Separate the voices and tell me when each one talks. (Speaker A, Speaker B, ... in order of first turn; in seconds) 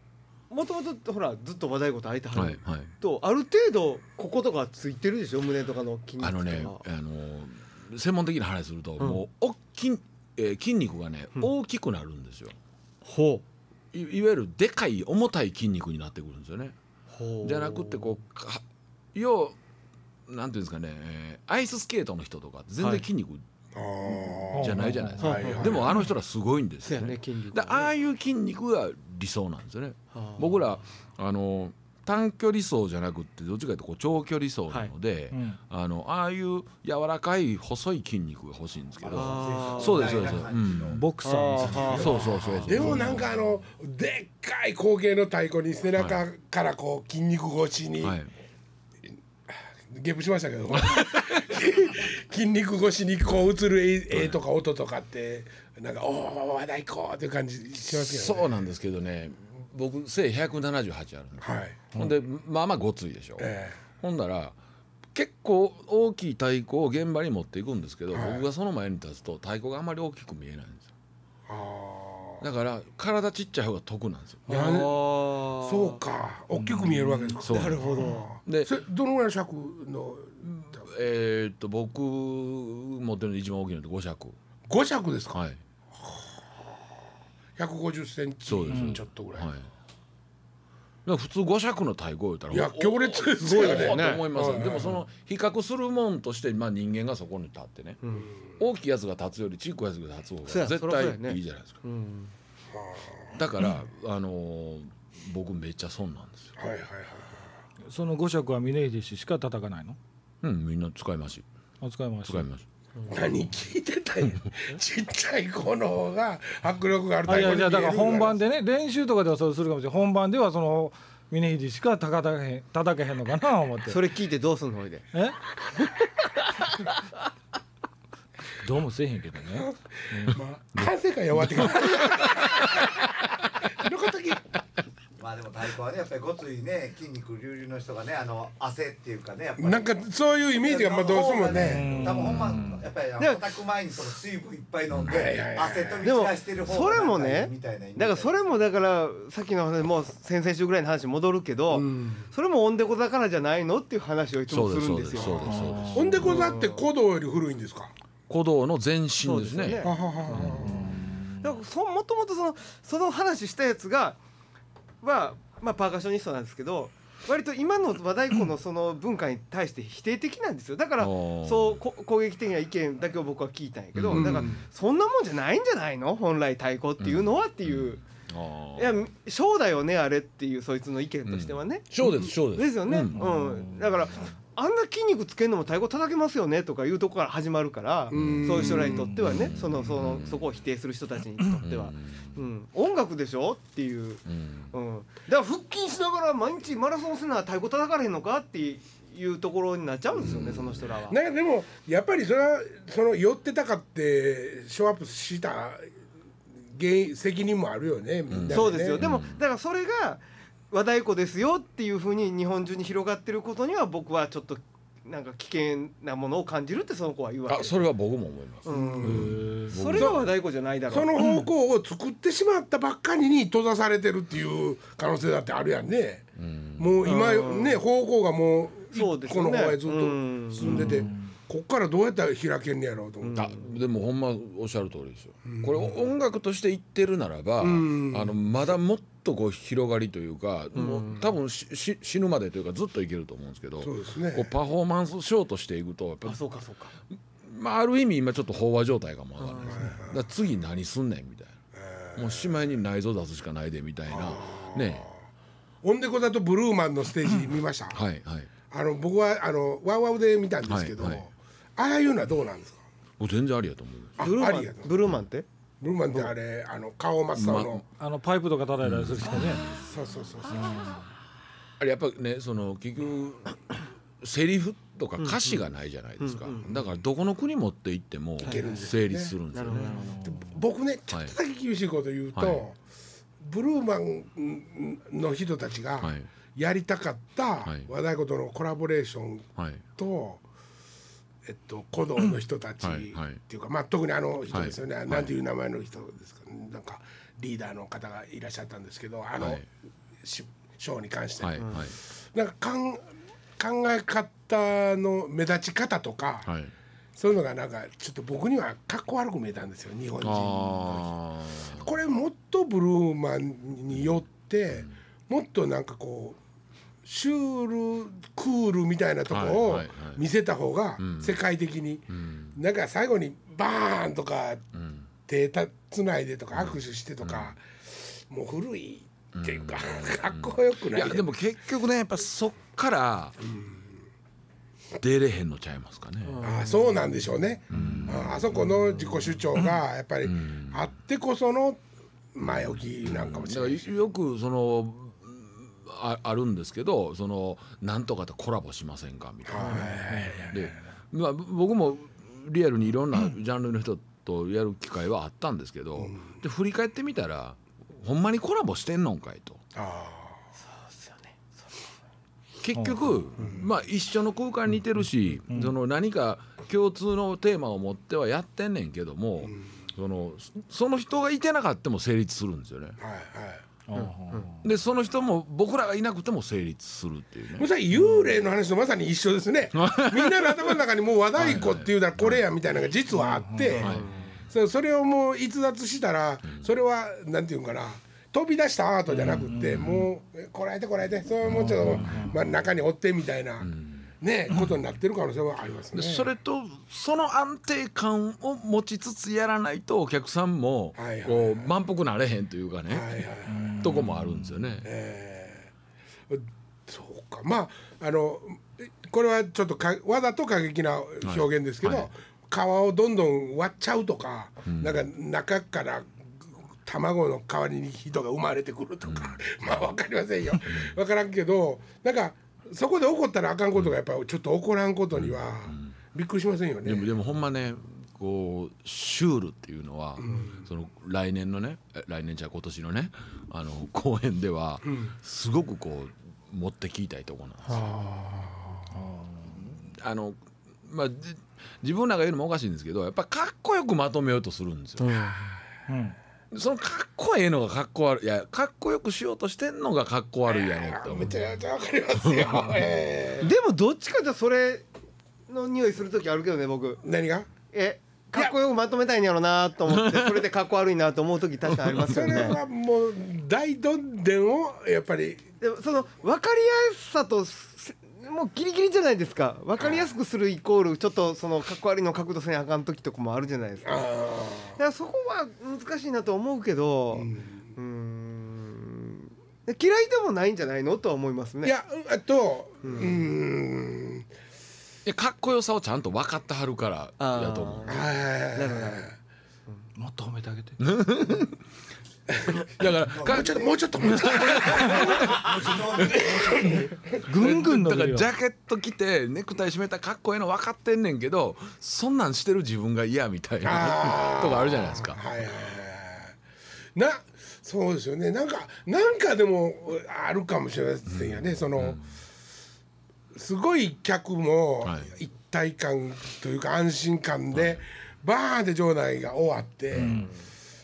Speaker A: 0.5-6.8, 13.0-13.4, 17.1-18.1, 25.2-25.7, 26.8-27.9, 30.1-30.6, 39.1-40.4, 41.2-42.2, 74.5-76.0, 77.4-78.3, 93.4-94.2, 98.0-98.3, 100.5-102.3, 123.9-125.0, 143.2-143.5, 146.0-156.8, 159.2-160.5, 161.4-164.2, 165.0-178.0, 178.8-201.2, 208.5-217.7, 218.7-221.2, 227.0-227.8, 228.9-231.0, 233.2-233.6, 240.7-241.3, 246.2-246.9, 249.4-249.9, 264.2-265.4, 275.2-275.6, 276.2-276.8, 278.4-278.8, 279.5-280.1, 336.2-337.0, 360.6-361.9, 373.9-374.5, 383.7-384.3, 437.6-438.1, 445.0-445.5, 453.4-454.9, 455.5-457.0, 457.7-462.6, 465.6-474.0, 474.8-481.7, 482.8-483.2, 487.2-489.1
Speaker B: 2.3-2.9, 6.2-12.6, 13.9-16.7, 17.4-18.6, 19.1-19.6, 20.3-23.4, 24.6-41.0, 41.7-43.3, 48.0-48.3, 50.9-51.2, 57.9-64.5, 65.1-70.9, 72.4-74.4, 77.4-78.7, 80.4-84.3, 85.3-85.6, 88.5-89.7, 91.0-98.0, 98.6-101.8, 103.3-106.5, 110.4-111.5, 112.2-112.6, 130.7-132.5, 144.9-145.2, 154.5-156.2, 158.3-160.8, 171.0-171.8, 173.9-174.5, 177.0-179.0, 181.2-183.2, 188.1-190.4, 191.6-192.3, 194.3-194.7, 200.2-200.8, 208.3-209.4, 217.5-220.3, 226.3-227.0, 233.3-246.4, 247.4-251.6, 252.1-255.1, 257.9-258.5, 260.7-261.2, 263.2-264.3, 267.3-267.8, 268.8-269.8, 271.8-280.1, 282.4-282.6, 286.0-286.3, 287.6-287.9, 289.6-289.8, 292.8-293.4, 294.5-295.3, 301.4-302.0, 306.4-306.7, 310.2-311.9, 319.3-320.2, 321.0-321.4, 322.1-322.6, 324.7-325.1, 326.5-327.5, 329.3-333.4, 335.0-336.4, 337.7-338.6, 340.2-340.9, 342.6-359.6, 362.6-373.0, 374.6-377.7, 379.7-380.8, 381.4-382.4, 383.8-384.1, 389.2-390.0, 391.5-392.4, 393.6-394.1, 395.9-403.2, 403.8-404.9, 411.2-412.1, 414.7-415.0, 419.1-419.6, 420.6-420.9, 425.1-425.9, 426.8-437.9, 439.5-445.1, 446.5-451.4, 452.2-452.8, 459.9-460.4, 485.0-488.0, 490.8-491.6, 492.6-505.2, 511.1-512.0, 517.5-517.8
Speaker C: 23.7-26.0, 42.6-48.2, 49.5-58.6, 61.4-61.8, 63.4-63.8, 68.1-68.5, 71.5-72.4, 74.5-75.0, 75.6-80.4, 84.7-85.4, 86.0-86.4, 87.6-89.5, 92.5-95.0, 102.7-103.4, 106.6-107.5, 113.1-118.4, 130.1-134.5, 139.6-142.1, 145.1-146.1, 151.7-152.3, 155.2-157.9, 159.8-160.9, 174.1-174.6, 182.0-182.3, 188.1-189.1, 201.1-205.9, 206.7-209.0, 218.7-219.3, 219.9-220.2, 220.9-233.4, 235.5-235.9, 237.6-238.4, 243.8-244.5, 249.7-250.2, 251.8-252.6, 254.1-255.1, 255.8-258.0, 258.7-262.8, 264.2-264.9, 265.8-267.8, 269.8-270.7, 278.4-279.4, 280.2-282.8, 283.4-290.4, 291.4-299.6, 300.2-306.5, 307.1-311.1, 311.7-316.4, 317.0-324.6, 325.3-331.3, 333.4-333.8, 336.4-341.8, 342.3-343.9, 349.5-350.7, 356.0-356.3, 359.7-360.4, 373.0-373.6, 377.6-383.9, 384.5-393.7, 394.2-396.3, 400.9-401.7, 402.9-404.0, 404.8-405.7, 406.3-427.1, 430.2-430.6, 437.9-438.6, 450.5-453.5, 457.0-457.5, 462.0-465.4, 473.8-474.8, 477.1-477.6, 481.6-484.3, 487.9-489.1, 493.2-495.6, 496.3-496.8, 503.6-506.3, 506.9-512.0, 513.3-520.3
Speaker D: 24.5-25.5, 35.3-35.6, 40.9-43.1, 76.6-77.3, 88.7-89.0, 107.9-110.0, 111.8-112.4, 117.2-124.0, 125.1-125.4, 128.6-130.4, 141.5-142.8, 155.5-156.2, 160.4-161.5, 183.1-183.9, 219.1-219.7, 268.0-269.6, 270.5-271.0, 279.9-280.4, 350.1-350.5, 373.9-374.6, 383.2-383.8, 389.2-390.0, 391.5-392.4, 403.5-404.4, 438.9-439.5, 445.9-446.2, 489.9-490.8, 497.2-498.3, 520.0-520.3
Speaker E: 39.0-42.5, 135.2-139.9, 140.6-148.6, 492.8-493.7, 494.4-496.9